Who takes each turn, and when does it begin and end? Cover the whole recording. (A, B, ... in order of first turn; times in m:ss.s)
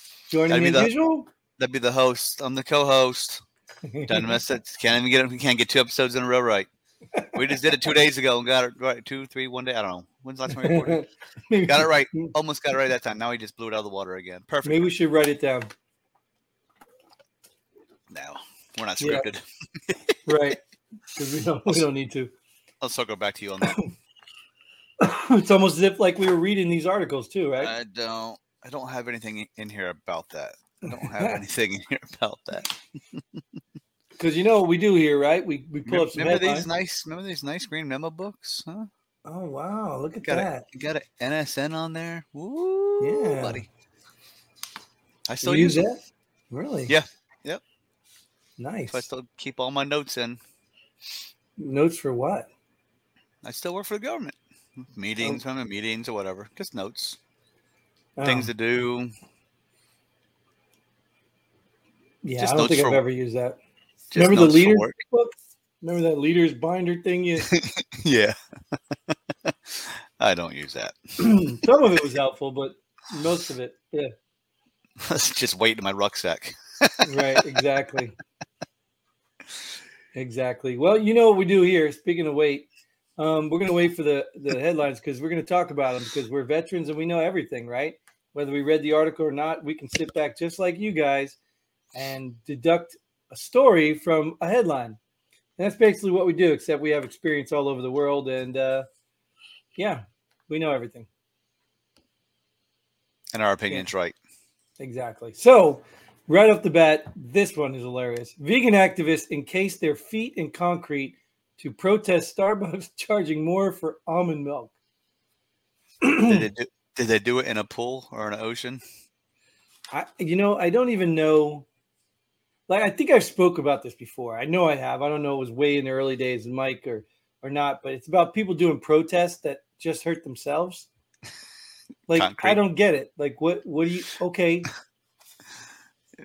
0:00.3-0:01.3 A
0:00.5-0:00.9 B
0:01.6-0:03.4 B
0:03.9-0:04.3 A
0:04.1-0:06.7 B
0:07.3-0:11.0 B
0:10.5-0:12.3 A
0:11.6-0:14.9 B
0:14.6-0:15.7 A
0:18.1-0:20.2 B
0:19.0-0:19.2 A
0:20.2-0:20.6 A
0:21.1-0:22.3 A
0:22.8-0:23.8 B
0:23.6-0:23.9 A
0:25.0-0:27.7 A
0:27.6-0:32.7 B
0:30.9-0:31.4 A
0:34.2-0:36.7 A
0:35.9-0:38.9 B
0:39.2-0:40.6 A
0:40.2-0:43.7 B
0:43.0-0:43.6 A
0:45.3-0:45.8 B
0:45.4-0:46.9 A
0:46.9-0:47.6 B
0:48.6-0:49.0 A
0:48.9-0:50.4 B
0:51.6-0:52.5 A
0:53.4-0:57.2 B
0:58.2-0:58.5 A
0:58.2-0:59.1 B
1:02.2-1:03.6 A
1:02.4-1:03.0 B
1:04.1-1:05.0 B
1:04.1-1:07.5 A
1:07.5-1:08.3 B
1:09.5-1:11.0 B
1:11.2-1:14.1 A
1:15.0-1:17.4 B
1:17.0-1:18.1 A
1:20.1-1:31.4 A
1:31.9-1:35.0 A
1:35.6-1:38.8 A
1:39.8-1:41.1 A
1:43.3-1:44.2 B
1:44.8-1:54.7 A
1:56.0-1:56.5 A
1:56.2-1:58.8 B
1:59.9-2:01.7 A
2:02.7-2:10.9 A
2:12.1-2:14.7 A
2:12.1-2:12.6 B